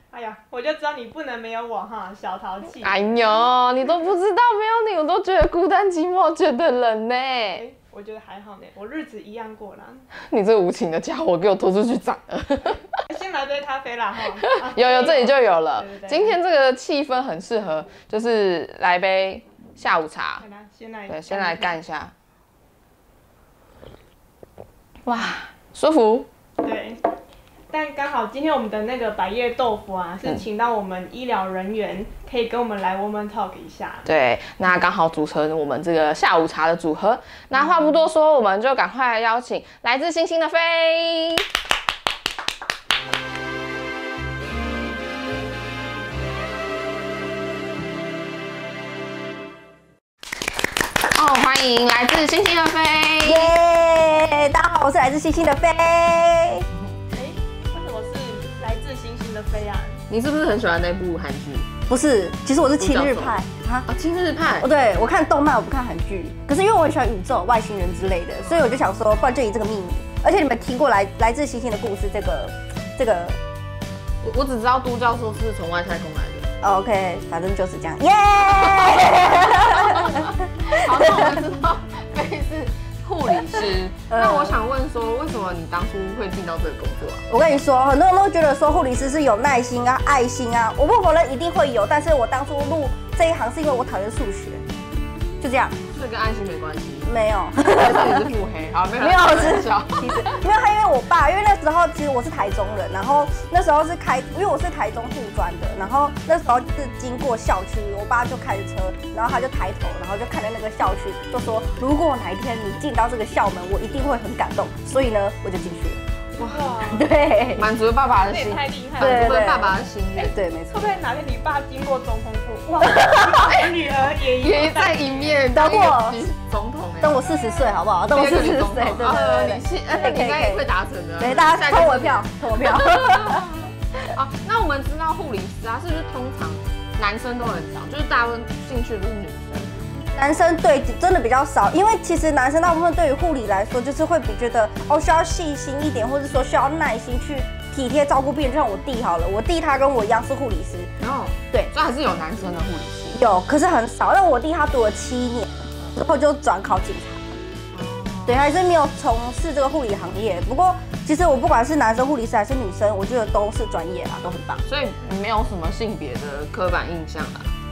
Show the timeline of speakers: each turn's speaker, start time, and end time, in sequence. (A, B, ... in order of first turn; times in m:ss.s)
0:00.1-0:03.1 A
0:02.8-0:07.6 B
0:07.5-0:10.0 A
0:10.3-0:12.9 B
0:13.1-0:16.4 A
0:14.4-0:20.4 B
0:20.4-0:21.8 A
0:21.1-0:22.1 B
0:25.0-0:26.3 B
0:26.6-0:27.0 A
0:27.7-0:34.1 A
0:34.0-0:41.4 B
0:51.1-0:53.6 B
0:53.2-0:56.6 C
0:57.1-1:00.0 A
1:00.1-1:01.7 B
1:01.9-1:03.9 C
1:02.8-1:04.7 B
1:04.6-1:13.4 C
1:08.4-1:08.9 B
1:14.2-1:16.5 B
1:16.6-1:21.4 C
1:18.4-1:27.2 B
1:24.1-1:24.6 C
1:27.3-1:34.6 C
1:35.4-1:35.8 C
1:35.9-1:40.4 B
1:37.0-1:38.3 C
1:39.0-1:56.0 C
1:56.4-1:56.6 B
1:56.4-1:57.1 A
1:56.9-1:57.6 C
1:57.6-2:00.4 B
1:58.2-1:59.5 A
1:59.0-2:01.0 C
2:00.7-2:05.4 A
2:02.8-2:03.4 C
2:03.4-2:03.7 B
2:04.3-2:07.3 B
2:05.5-2:06.3 C
2:07.0-2:10.6 C
2:08.1-2:19.7 B
2:11.2-2:13.4 C
2:20.1-2:30.9 C
2:31.0-2:33.3 B
2:33.1-2:37.2 C
2:37.7-2:38.6 B
2:38.2-2:44.6 C
2:44.7-2:47.5 B